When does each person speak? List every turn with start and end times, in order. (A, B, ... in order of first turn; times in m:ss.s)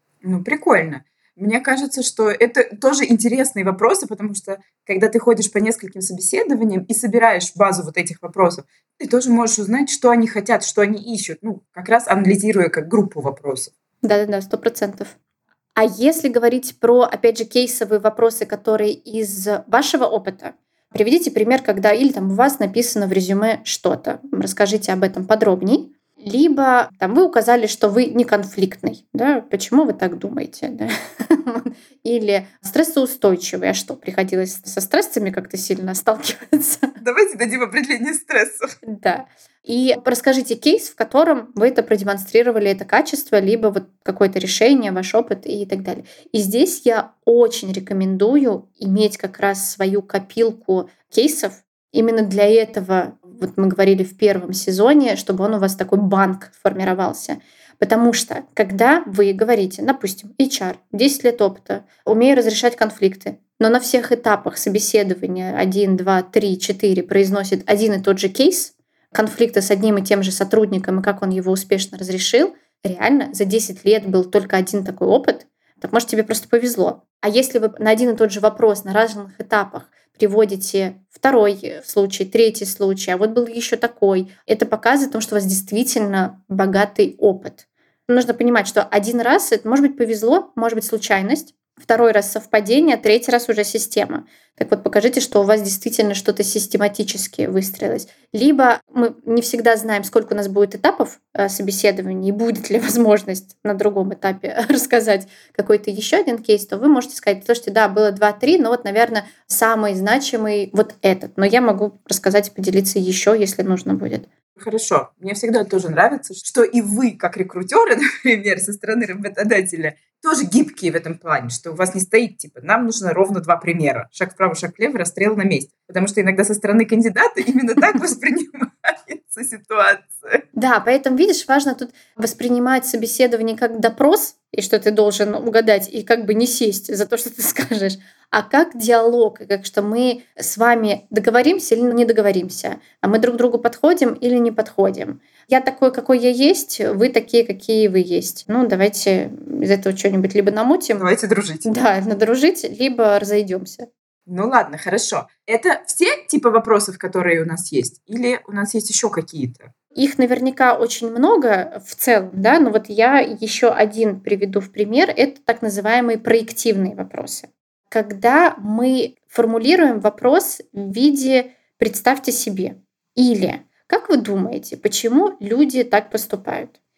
0:00.2-0:13.7 A
0:14.0-0:15.2 B
0:15.8-0:36.9 B
0:37.0-0:38.7 A
0:38.8-1:54.3 B
1:54.6-2:10.4 A
2:10.5-2:31.0 B
2:31.0-2:31.7 A
2:31.6-2:33.9 B
2:34.3-2:39.7 A
2:39.9-2:56.7 B